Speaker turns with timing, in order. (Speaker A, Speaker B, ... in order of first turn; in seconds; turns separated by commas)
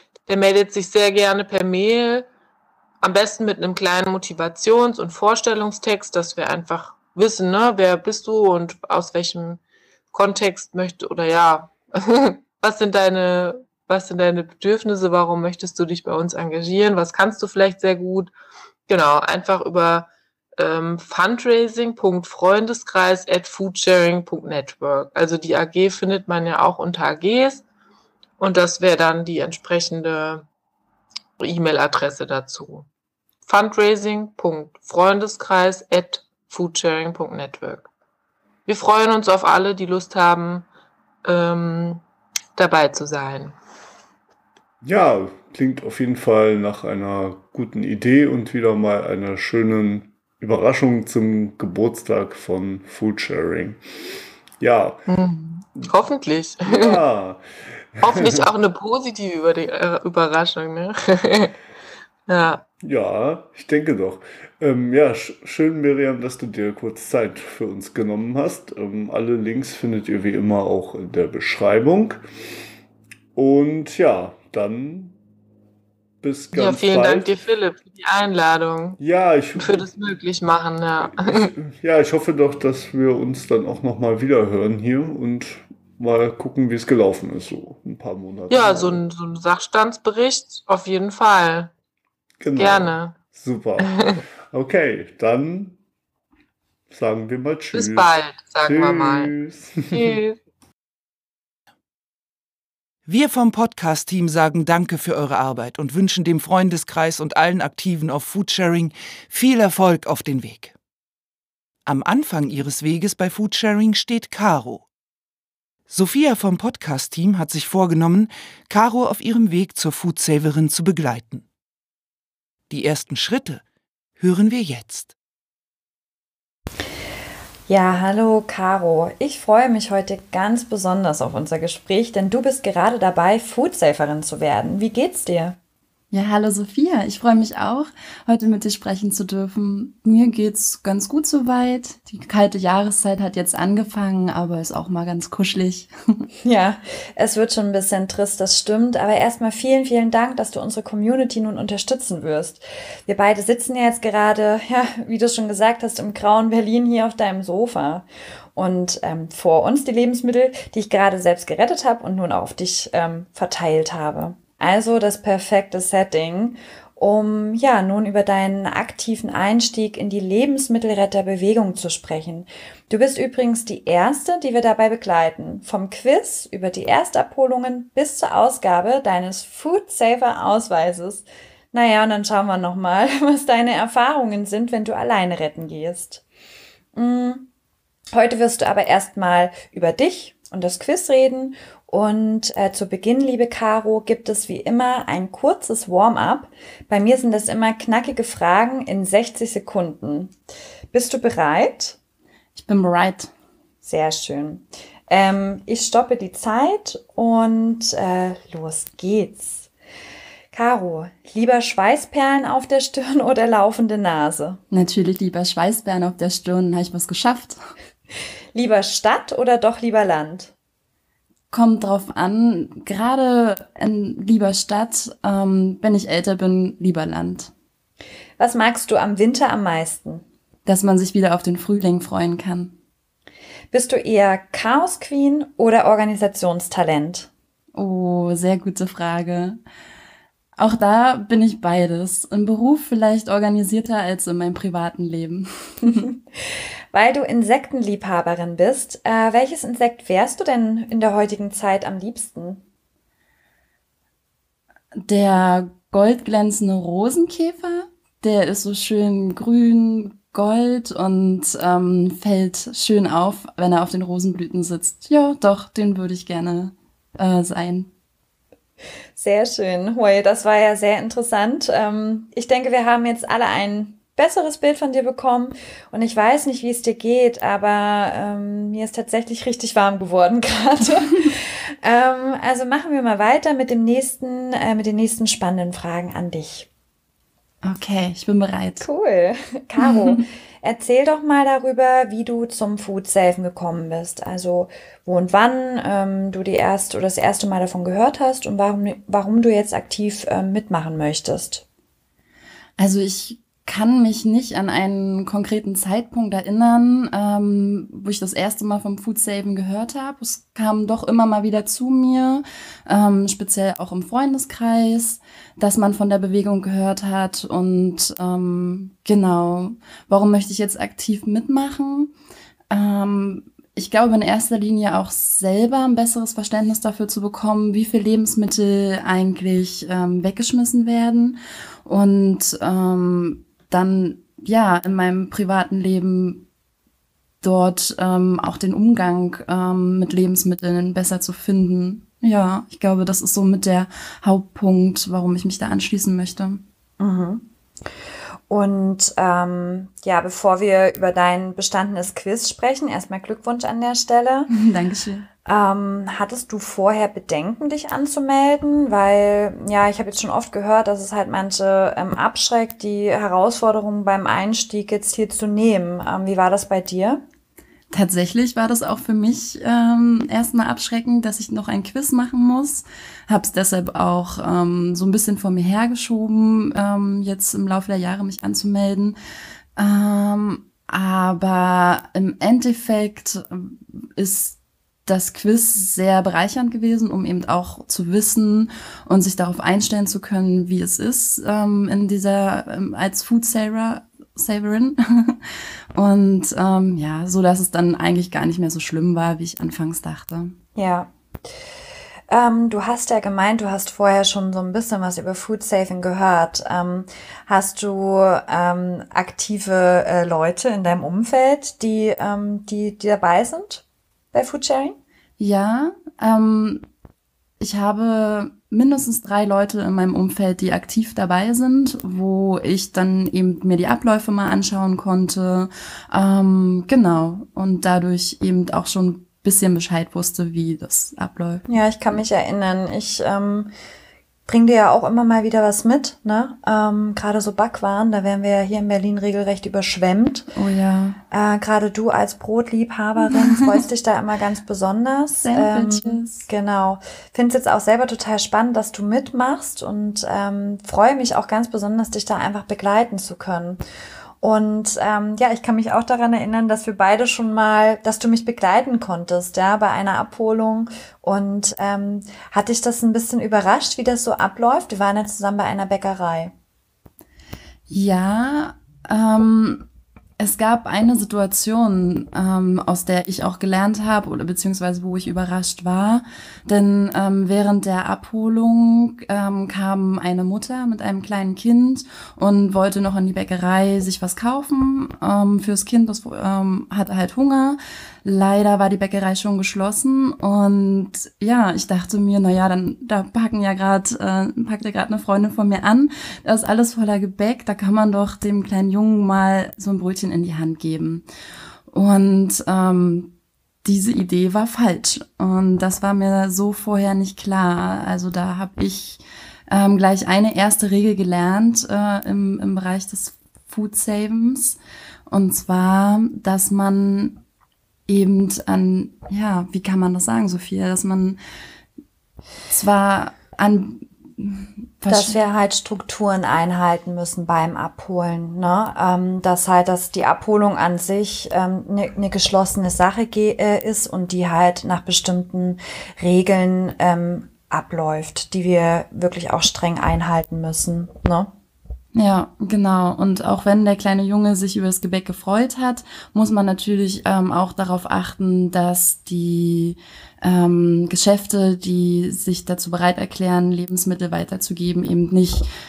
Speaker A: 0.3-2.3, Speaker A: 3.0-9.6, Speaker A: 10.1-18.3, Speaker A: 18.9-27.6, Speaker A: 28.4-30.4, Speaker A: 31.4-32.9, Speaker A: 33.4-37.9, Speaker A: 38.7-40.7, Speaker A: 41.2-42.0, Speaker A: 42.5-43.5, Speaker B: 44.8-53.8, Speaker B: 54.6-55.0, Speaker A: 55.1-57.0, Speaker B: 56.7-58.4, Speaker A: 58.0-61.5, Speaker A: 62.3-62.6, Speaker B: 62.8-72.2, Speaker B: 73.3-75.2, Speaker B: 76.2-77.4, Speaker A: 76.5-79.0, Speaker B: 79.0-79.8, Speaker A: 79.6-81.5, Speaker B: 81.2-89.0, Speaker A: 88.5-91.7, Speaker B: 92.4-95.8, Speaker A: 92.6-93.2, Speaker A: 93.8-94.2, Speaker B: 96.9-98.1, Speaker A: 97.7-99.3, Speaker B: 98.6-100.2, Speaker A: 99.9-100.4, Speaker C: 103.0-110.7, Speaker C: 111.8-114.9, Speaker C: 115.9-121.4, Speaker C: 122.7-123.6, Speaker C: 124.2-125.1, Speaker D: 127.7-135.6, Speaker E: 136.1-146.3, Speaker D: 146.4-186.2, Speaker D: 186.9-187.5, Speaker D: 188.1-200.4, Speaker D: 200.9-202.0, Speaker E: 202.5-203.3, Speaker D: 203.8-209.7, Speaker D: 210.5-214.6, Speaker E: 214.7-217.6, Speaker D: 218.5-220.5, Speaker E: 221.5-227.5, Speaker D: 228.4-230.2, Speaker E: 230.7-232.7, Speaker D: 233.7-237.3, Speaker E: 237.8-239.6, Speaker E: 240.6-246.1, Speaker D: 245.8-246.2, Speaker D: 246.9-252.6, Speaker E: 255.0-267.9, Speaker D: 269.1-286.7, Speaker E: 287.6-288.9, Speaker D: 288.8-301.6, Speaker E: 289.8-290.2, Speaker E: 302.8-322.1, Speaker E: 322.7-336.4, Speaker E: 337.4-346.6, Speaker D: 347.0-347.5, Speaker D: 348.5-354.5, Speaker E: 354.5-355.3, Speaker D: 355.4-367.2, Speaker E: 367.9-379.1, Speaker E: 379.8-395.4, Speaker E: 395.9-400.5, Speaker D: 400.8-401.1, Speaker D: 402.3-415.0, Speaker E: 415.4-416.8, Speaker E: 417.6-431.6, Speaker D: 431.7-433.7, Speaker D: 434.5-440.5, Speaker E: 440.5-441.2, Speaker D: 441.3-453.8, Speaker E: 445.4-446.5, Speaker D: 454.4-466.5, Speaker E: 467.9-469.9, Speaker E: 470.4-501.2, Speaker E: 501.9-503.3, Speaker E: 503.8-514.8, Speaker E: 515.3-517.4, Speaker E: 518.1-521.4, Speaker E: 522.7-525.4, Speaker D: 525.1-541.5, Speaker E: 542.1-555.7